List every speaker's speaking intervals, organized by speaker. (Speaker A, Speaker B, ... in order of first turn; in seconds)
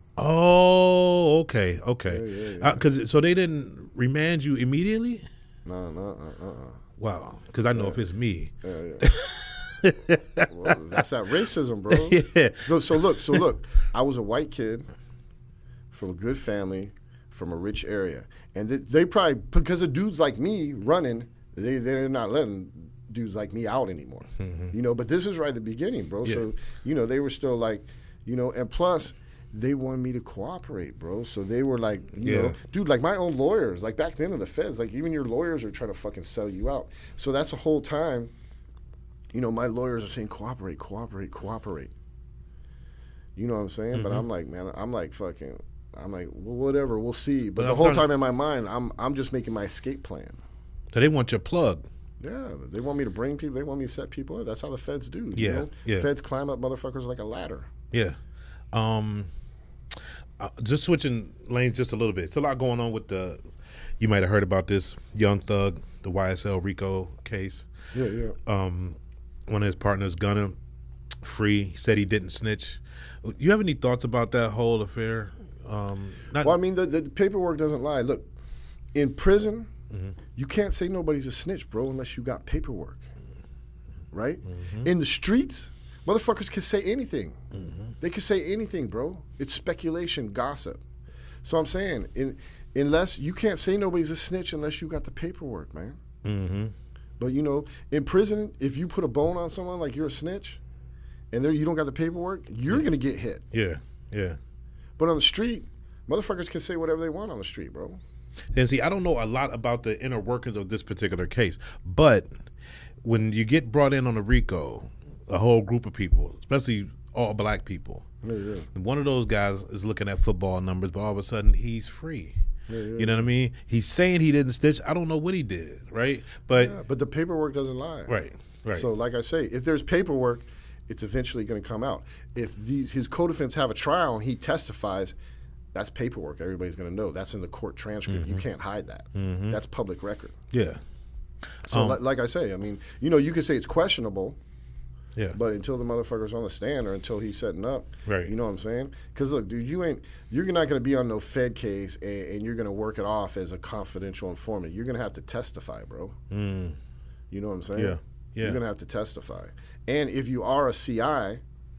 Speaker A: 0.2-5.2, 7.0-10.8, 11.9-13.4, 24.4-24.7, 32.2-32.5, 43.9-44.2, 47.6-48.1, 50.9-51.9, 55.3-56.1, 57.9-58.2, 58.7-59.3, 59.9-63.4, 64.0-67.7, 68.4-70.5, 71.2-76.6, 84.5-84.9, 87.5-87.9, 96.2-96.7, 103.5-104.4, 108.5-112.5, 113.0-118.0, 118.7-122.4, 123.0-126.7, 128.1-128.9, 138.1-138.4, 139.1-139.6, 140.5-140.8, 141.7-142.0, 148.1-148.3, 156.3-156.8, 157.7-158.6
Speaker B: 2.1-2.8, 5.7-6.8, 8.6-9.1, 10.4-14.9, 15.9-38.3, 39.3-41.9, 43.4-50.4, 52.2-57.7, 67.9-68.4, 76.4-78.3, 78.9-79.7, 80.3-83.0, 84.1-87.4, 88.0-90.8, 91.4-96.0, 97.2-100.6, 101.3-103.4, 105.0-108.0, 118.2-118.7, 122.7-123.3, 126.5-128.1, 128.7-135.1, 135.7-140.3, 141.7-144.4, 145.3-156.2, 157.3-161.4